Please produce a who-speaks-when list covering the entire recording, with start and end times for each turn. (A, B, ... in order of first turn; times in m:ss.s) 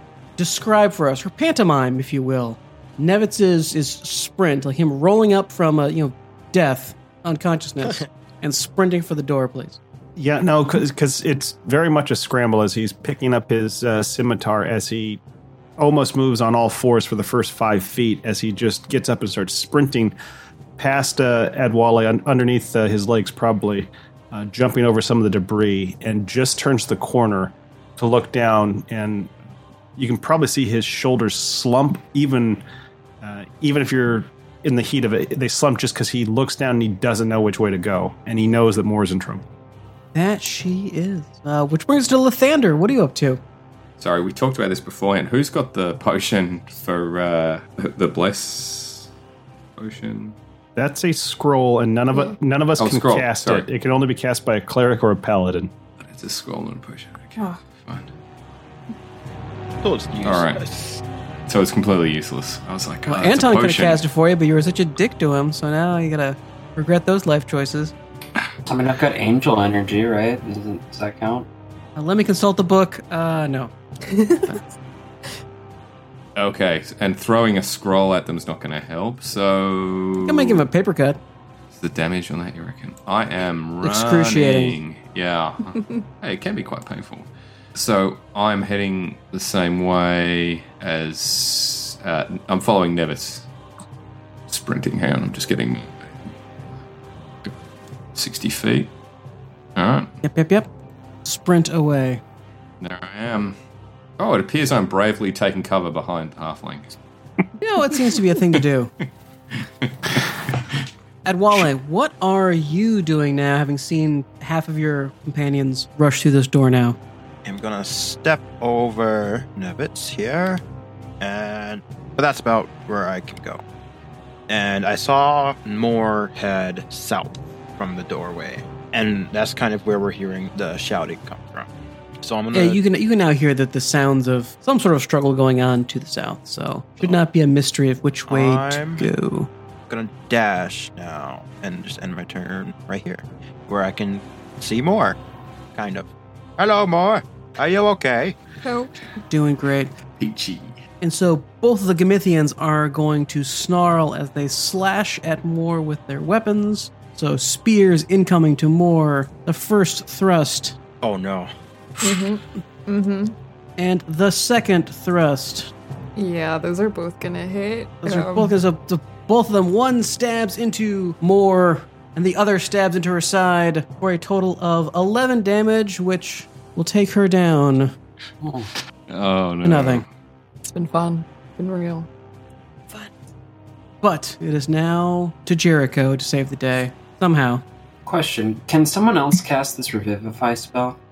0:00.4-0:09.8 A
0:10.2-0:15.2 B
0:15.8-0:20.1 B
0:20.8-0:29.3 B
0:30.0-0:32.6 B
0:33.2-0:39.4 B
0:40.1-0:43.4 A
0:44.0-0:49.1 C
0:49.8-0:50.4 C
0:50.8-0:55.7 B
0:52.8-0:53.7 C
0:56.0-0:58.1 C
0:57.4-0:57.6 D
0:59.8-1:00.9 E
1:00.2-1:00.6 C
1:01.5-1:04.0 C
1:03.1-1:07.9 A
1:08.6-1:11.5 F
1:12.0-1:13.7 A
1:14.1-1:14.6 D
1:16.4-1:20.6 C
1:20.2-1:21.2 A
1:21.7-1:33.5 C
1:23.8-1:24.8 A
1:34.5-1:36.1 C
1:38.1-1:38.9 C
1:39.8-1:40.1 C
1:40.2-1:40.7 A
1:41.2-1:42.2 A
1:42.8-1:43.6 C
1:44.2-1:46.9 C
1:47.6-1:48.9 A
1:49.5-1:50.7 C
1:51.2-1:57.0 A
1:57.4-2:00.6 E
2:01.2-2:03.6 E
2:04.5-2:11.7 E
2:12.2-2:12.8 E
2:12.5-2:19.5 A
2:18.3-2:19.1 E
2:19.9-2:25.2 E
2:25.7-2:28.4 E
2:28.6-2:28.9 D
2:29.3-2:29.9 A
2:30.2-2:30.8 C
2:31.0-2:40.8 A
2:41.0-2:41.5 E
2:42.0-2:43.3 D
2:43.8-2:45.7 A
2:46.2-2:48.6 D
2:48.0-2:57.9 A
2:58.4-2:58.7 F
2:59.1-3:00.0 C
2:59.6-3:00.0 A
3:00.6-3:02.1 D
3:04.0-3:07.6 A
3:08.0-3:11.0 F